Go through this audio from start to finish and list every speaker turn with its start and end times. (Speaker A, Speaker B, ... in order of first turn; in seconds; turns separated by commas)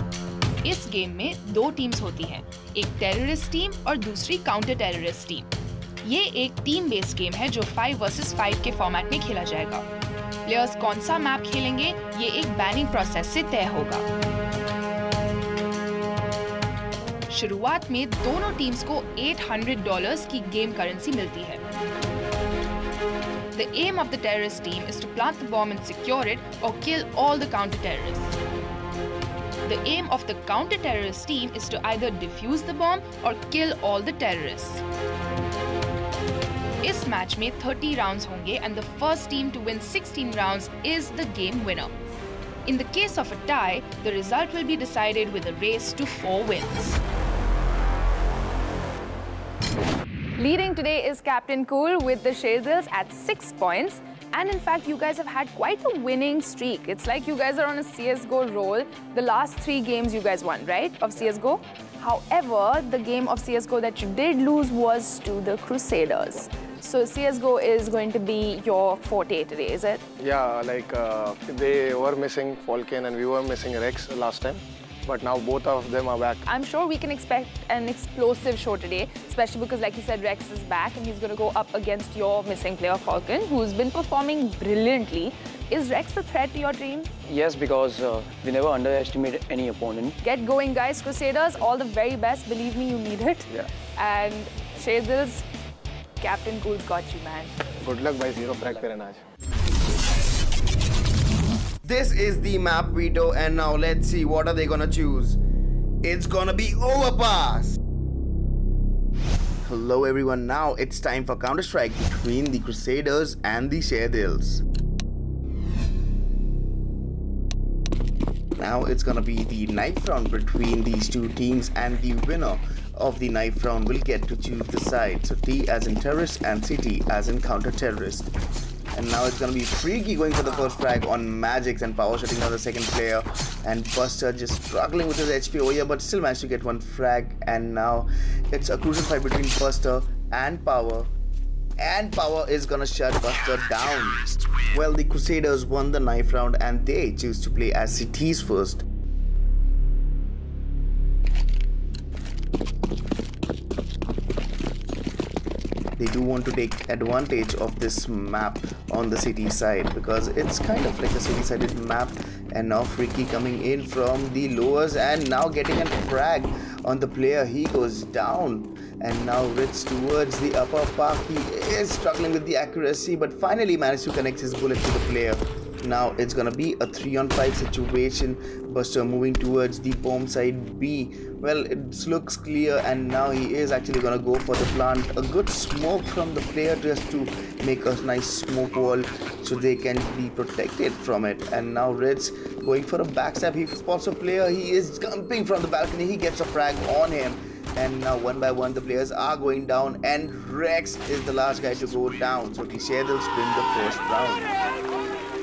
Speaker A: 0.6-5.5, Speaker A: 6.0-9.8, Speaker A: 10.4-14.0, Speaker A: 17.3-21.6, Speaker A: 23.5-28.3, Speaker A: 29.6-34.8, Speaker A: 36.8-41.9, Speaker A: 42.6-47.0, Speaker B: 50.4-70.0, Speaker C: 70.2-76.4, Speaker B: 76.5-87.1, Speaker D: 87.3-90.2, Speaker B: 90.2-95.5, Speaker B: 96.2-97.5, Speaker C: 97.8-99.2, Speaker E: 101.8-105.4, Speaker E: 106.0-107.8, Speaker E: 109.6-114.6, Speaker E: 118.6-128.3, Speaker E: 128.9-141.1, Speaker E: 141.8-148.8, Speaker E: 156.0-204.5